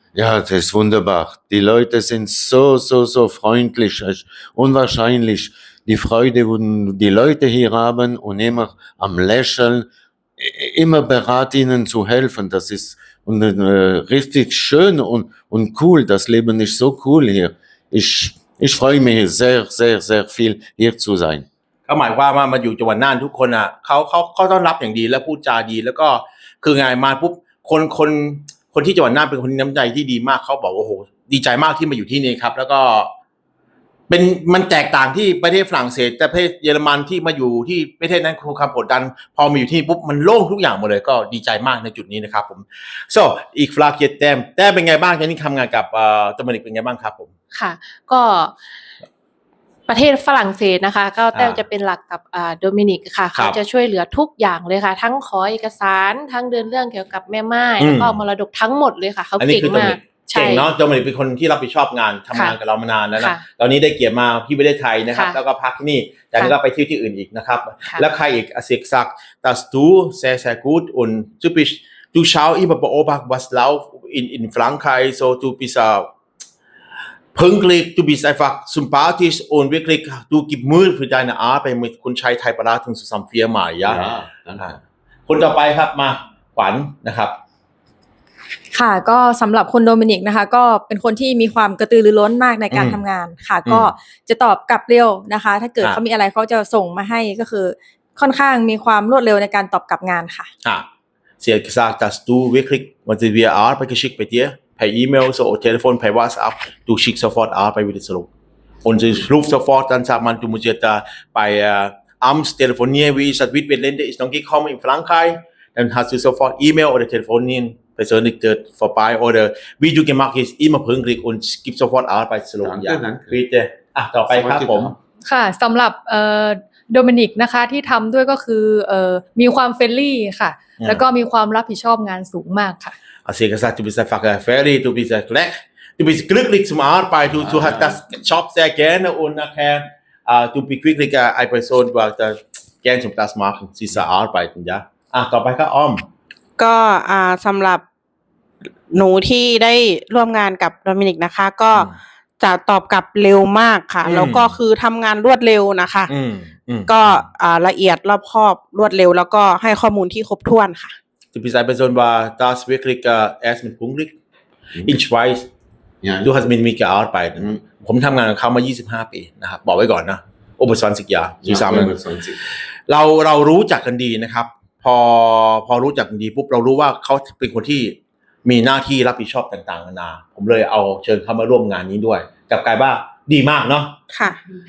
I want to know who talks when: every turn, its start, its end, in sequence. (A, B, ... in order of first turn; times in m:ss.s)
0:00.2-0:21.4 A
0:21.9-0:33.1 B
0:34.1-0:47.3 B
0:47.5-0:48.5 C
0:49.9-1:00.7 C
0:51.3-0:51.6 B
0:57.8-0:58.2 B
0:59.4-1:16.1 B
1:03.2-1:03.4 C
1:05.1-1:05.4 C
1:17.3-1:24.0 B
1:23.8-1:24.8 A
1:24.6-1:27.4 B
1:28.7-1:40.5 D
1:32.7-1:33.0 B
1:33.6-1:33.9 B
1:41.4-1:48.3 B
1:48.8-2:04.9 B
2:02.6-2:03.4 A
2:04.3-2:05.0 A
2:05.2-2:12.9 E
2:13.3-2:26.1 B
2:17.4-2:17.9 A
2:26.6-2:27.8 F
2:28.9-2:31.9 F
2:32.4-2:36.1 F
2:34.0-2:34.6 B
2:36.1-2:37.3 B
2:36.8-2:41.0 F
2:41.3-2:44.1 B
2:44.8-2:45.5 B
2:46.0-2:46.4 A
2:46.2-2:51.9 B
2:47.4-2:47.6 A
2:51.4-2:52.5 A
2:52.9-3:04.0 B
3:04.1-3:04.4 F